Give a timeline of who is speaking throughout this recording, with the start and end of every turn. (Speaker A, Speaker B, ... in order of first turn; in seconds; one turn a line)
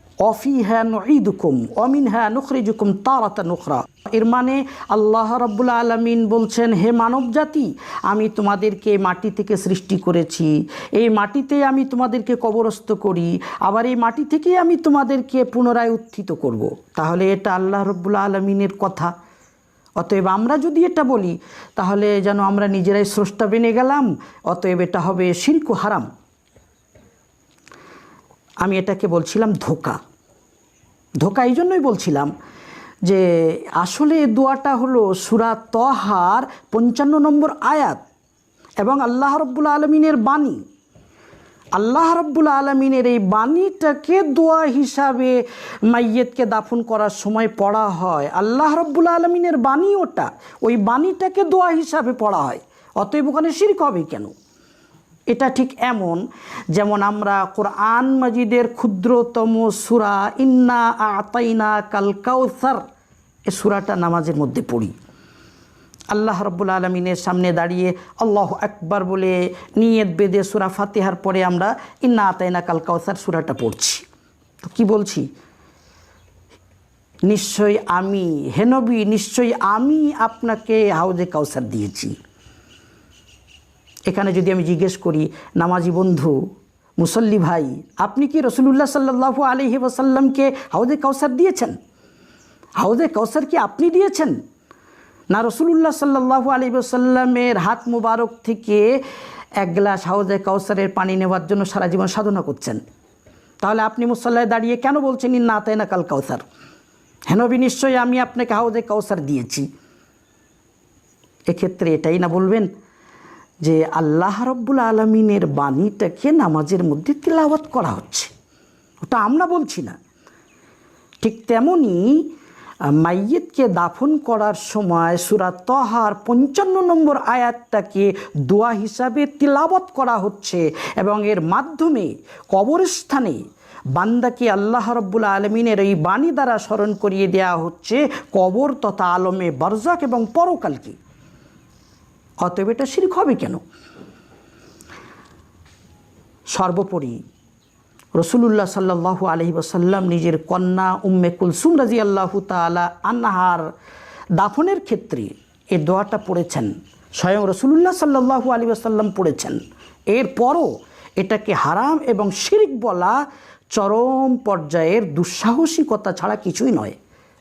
Speaker A: 0.2-19.1
Speaker A: 20.0-26.1
Speaker A: 28.6-30.0
Speaker A: 31.2-32.3
Speaker A: 33.8-38.0
Speaker A: 38.8-40.6
Speaker A: 41.7-45.4
Speaker A: 45.9-54.3
Speaker A: 55.3-56.2
Speaker A: 56.7-62.8
Speaker A: 63.5-64.9
Speaker A: 66.1-74.0
Speaker A: 74.6-75.3
Speaker A: 77.3-82.2
Speaker A: 84.1-86.4
Speaker A: 87.0-91.8
Speaker A: 92.8-94.4
Speaker A: 95.3-98.9
Speaker A: 99.6-102.8
Speaker A: 103.6-106.4
Speaker A: 107.3-109.7
Speaker A: 111.5-112.7
Speaker A: 113.6-118.3
Speaker A: 119.0-120.0
Speaker A: 121.2-122.3
Speaker A: 123.0-133.4
Speaker A: 134.0-141.0
Speaker A: 142.4-143.6
Speaker A: 146.5-147.2
Speaker A: 148.2-153.7
Speaker A: 154.4-163.2
Speaker A: 163.7-166.9